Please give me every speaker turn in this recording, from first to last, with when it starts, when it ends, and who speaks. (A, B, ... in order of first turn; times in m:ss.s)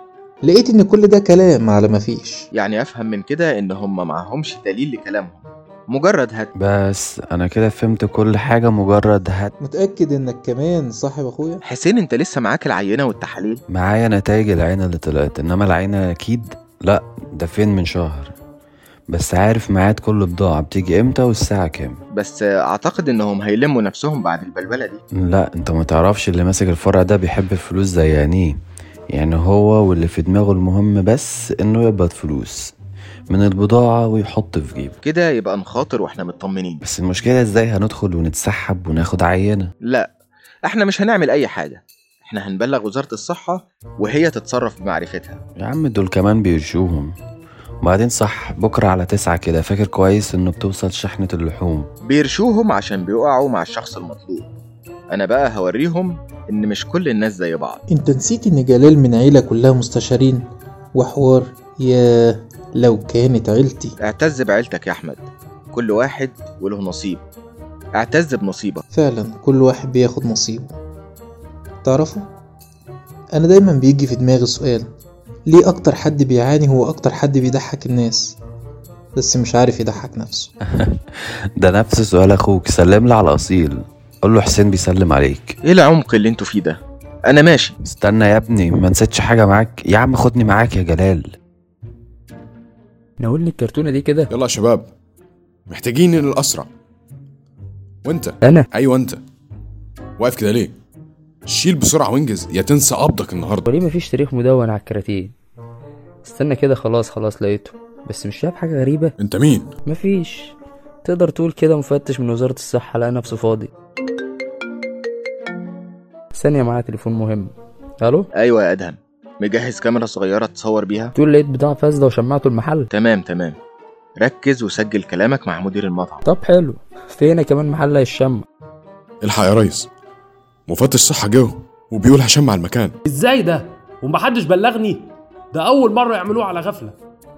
0:00.4-0:02.4 A
0:02.5-0:06.5 B
0:06.6-0:09.5 C
0:09.6-0:11.6 A
0:11.6-0:13.6 B
0:13.7-0:18.3 C
0:19.1-0:22.0 C
0:22.1-0:25.0 B
0:25.1-0:28.6 C
0:29.1-0:32.7 C
0:33.3-0:35.0 C
0:35.0-0:36.8 B
0:36.8-0:39.7 C
0:40.7-0:45.4 B
0:45.6-0:47.1 C
0:47.8-0:51.9 C
0:52.0-0:54.5 B
0:55.1-0:57.8 B
0:57.9-1:00.4 A
1:00.9-1:03.9 A
1:04.0-1:07.2 B
1:08.0-1:08.8 B
1:08.9-1:10.8 A
1:11.8-1:12.2 A
1:13.3-1:14.9 A
1:15.5-1:18.4 A
1:19.2-1:20.5 A
1:20.6-1:25.6 C
1:25.6-1:27.7 B
1:27.8-1:31.3 C
1:33.2-1:34.3 D
1:34.3-1:34.9 E
1:35.7-1:36.7 E
1:38.0-1:39.2 E
1:38.4-1:38.7 D
1:40.2-1:40.7 E
1:41.5-1:43.6 E
1:43.6-1:45.3 D
1:46.2-1:49.1 D
1:49.2-1:49.7 E
1:49.8-1:53.7 D
1:56.3-1:58.3 D
1:58.4-2:01.1 B
2:01.1-2:02.9 D
2:02.9-2:03.6 B
2:04.2-2:06.2 B
2:06.2-2:08.4 D
2:09.2-2:09.9 E
2:10.7-2:13.0 E
2:13.0-2:17.0 F